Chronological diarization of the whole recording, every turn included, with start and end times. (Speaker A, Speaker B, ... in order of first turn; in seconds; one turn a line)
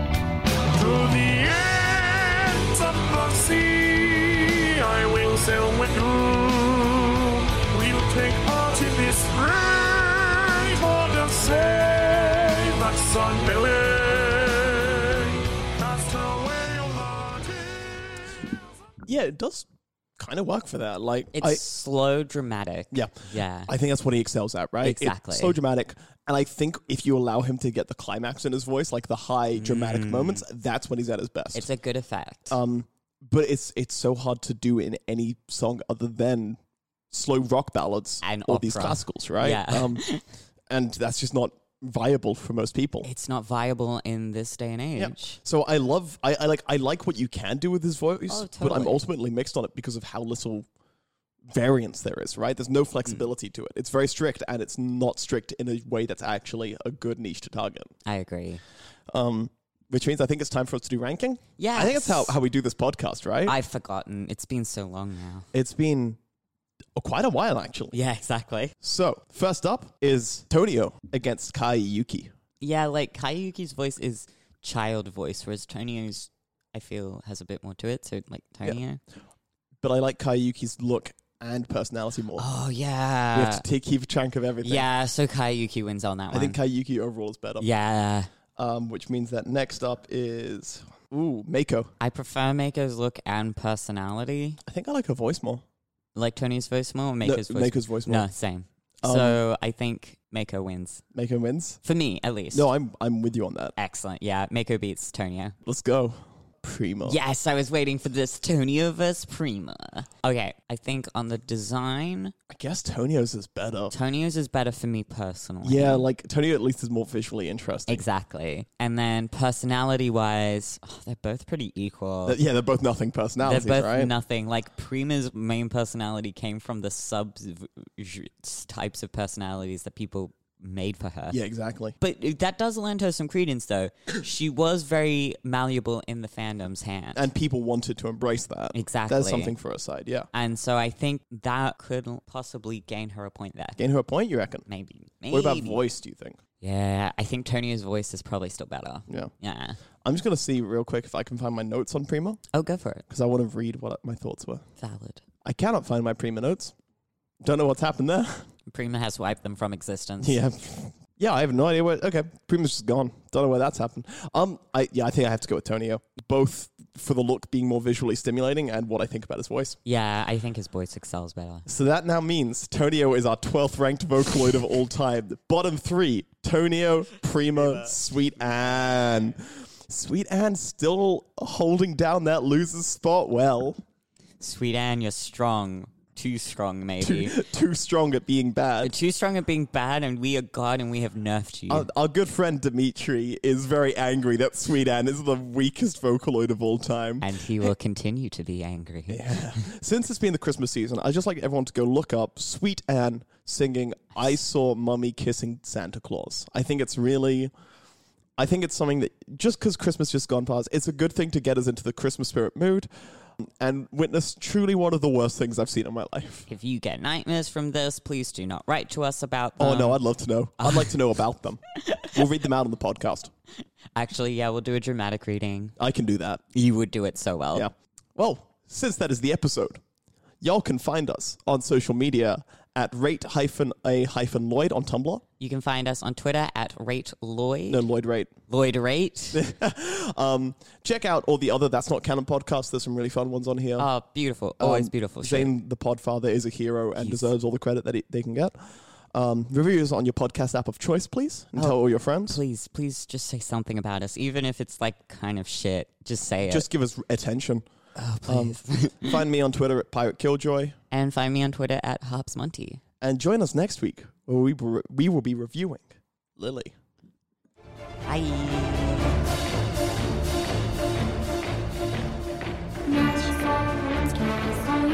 Speaker A: 0.7-18.2
Speaker B: 19.1-19.7
Speaker B: 20.2-21.6
Speaker C: 21.3-23.7
Speaker B: 22.9-31.7
Speaker C: 24.8-25.6
Speaker C: 29.6-30.4
Speaker C: 31.5-32.5
Speaker B: 32.5-36.6
Speaker B: 37.1-40.0
Speaker C: 38.2-40.2
Speaker B: 40.7-43.1
Speaker C: 43.0-45.4
Speaker B: 45.0-50.6
Speaker C: 48.3-49.0
Speaker B: 51.5-57.9
Speaker C: 58.0-58.6
Speaker B: 59.1-63.5
Speaker C: 61.6-62.4
Speaker C: 63.5-65.5
Speaker B: 65.5-66.2
Speaker B: 67.0-68.0
Speaker C: 67.9-68.7
Speaker B: 68.8-72.3
Speaker C: 72.6-79.0
Speaker B: 79.8-82.4
Speaker C: 82.4-83.6
Speaker B: 83.3-84.9
Speaker C: 84.6-86.6
Speaker B: 86.3-87.7
Speaker C: 87.6-88.3
Speaker B: 88.6-91.9
Speaker C: 92.0-94.6
Speaker B: 94.7-95.6
Speaker C: 96.1-101.0
Speaker B: 97.2-98.3
Speaker B: 99.0-99.4
Speaker B: 101.1-101.8
Speaker C: 101.8-102.7
Speaker B: 102.5-103.7
Speaker C: 103.8-105.5
Speaker B: 105.6-107.2
Speaker C: 107.0-112.3
Speaker B: 112.5-113.9
Speaker C: 113.9-116.1
Speaker B: 115.6-118.0
Speaker C: 117.9-122.4
Speaker B: 122.2-124.1
Speaker C: 123.4-131.4
Speaker B: 131.3-131.9
Speaker C: 132.0-137.3
Speaker B: 137.1-140.3
Speaker C: 138.7-139.5
Speaker C: 140.3-143.8
Speaker B: 143.8-144.7
Speaker C: 144.7-145.8
Speaker B: 145.3-146.4
Speaker C: 146.6-149.8
Speaker B: 150.0-152.4
Speaker C: 152.5-153.0
Speaker B: 153.1-154.6
Speaker C: 154.8-155.2
Speaker B: 155.4-156.7
Speaker B: 157.4-158.5
Speaker C: 158.7-160.4
Speaker B: 160.2-169.8
Speaker C: 169.8-171.7
Speaker B: 171.7-183.8
Speaker C: 184.4-187.4
Speaker B: 187.0-188.9
Speaker C: 188.8-191.9
Speaker B: 191.7-197.7
Speaker C: 197.2-199.6
Speaker B: 199.1-207.5
Speaker B: 208.4-216.5
Speaker C: 216.5-220.0
Speaker B: 219.6-223.3
Speaker C: 220.6-220.9
Speaker C: 223.9-225.8
Speaker B: 225.8-226.4
Speaker C: 226.5-227.7
Speaker B: 227.5-229.8
Speaker B: 230.4-235.2
Speaker C: 235.4-237.8
Speaker B: 237.7-238.3
Speaker C: 238.5-239.4
Speaker B: 239.3-243.9
Speaker C: 243.8-245.5
Speaker B: 244.6-252.4
Speaker C: 247.0-247.3
Speaker C: 251.6-256.7
Speaker B: 256.4-257.6
Speaker C: 257.9-259.2
Speaker B: 258.3-260.8
Speaker C: 260.9-262.8
Speaker B: 263.0-266.7
Speaker C: 268.1-269.2